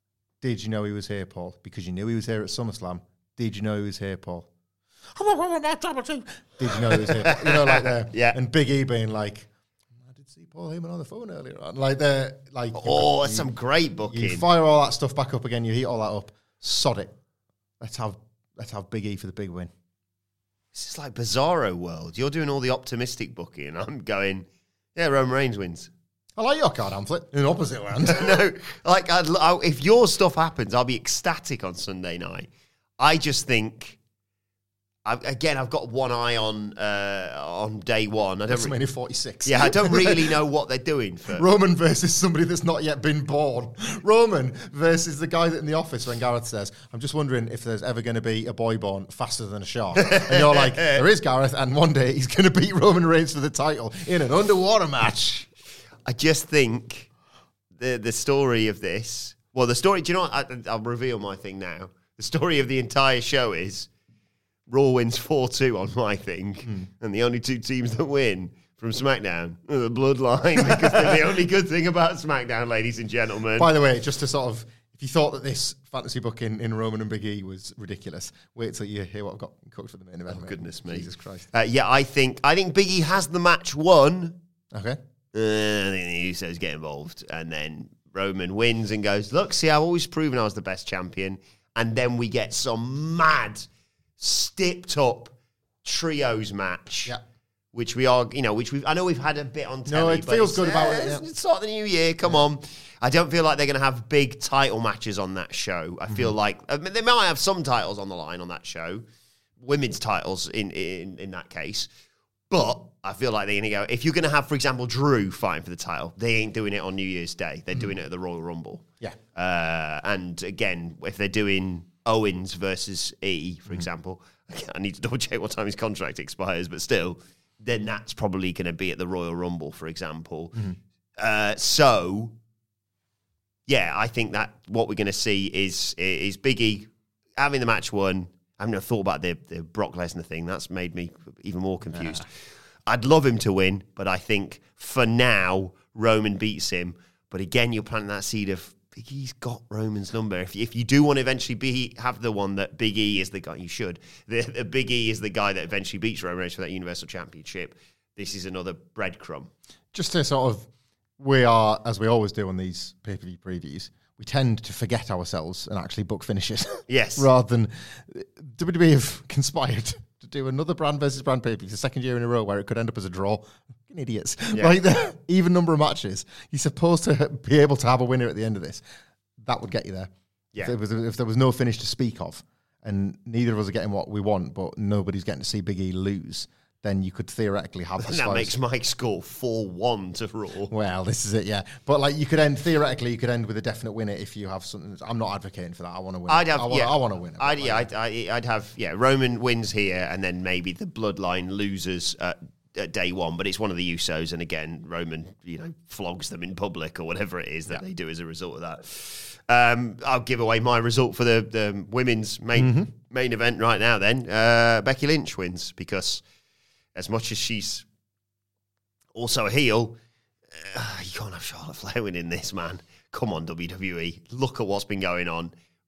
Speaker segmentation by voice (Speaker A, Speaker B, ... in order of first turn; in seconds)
Speaker A: 0.4-4.5, 5.1-9.5, 10.0-13.5, 14.1-17.1, 17.8-19.7, 26.4-28.4, 38.5-40.2, 41.3-55.5, 66.6-66.9, 70.6-71.2, 73.6-81.5, 84.7-85.0, 99.9-101.2, 106.1-106.3, 141.9-142.2, 159.9-160.7, 161.2-178.8, 179.4-188.6, 190.7-197.9, 212.6-212.9
Speaker B: 6.9-8.4, 12.7-14.4, 20.7-25.9, 28.0-32.5, 33.0-34.0, 35.0-38.7, 39.4-41.4, 50.0-51.0, 56.0-57.1, 57.8-63.9, 64.7-73.7, 80.3-84.4, 85.3-93.7, 94.2-97.2, 97.7-109.0, 109.6-111.9, 112.5-130.6, 131.2-132.3, 133.7-142.3, 142.9-159.5, 166.9-167.3, 174.5-174.8, 188.0-190.7, 196.3-216.2, 216.9-217.8, 219.1-219.9, 220.5-225.5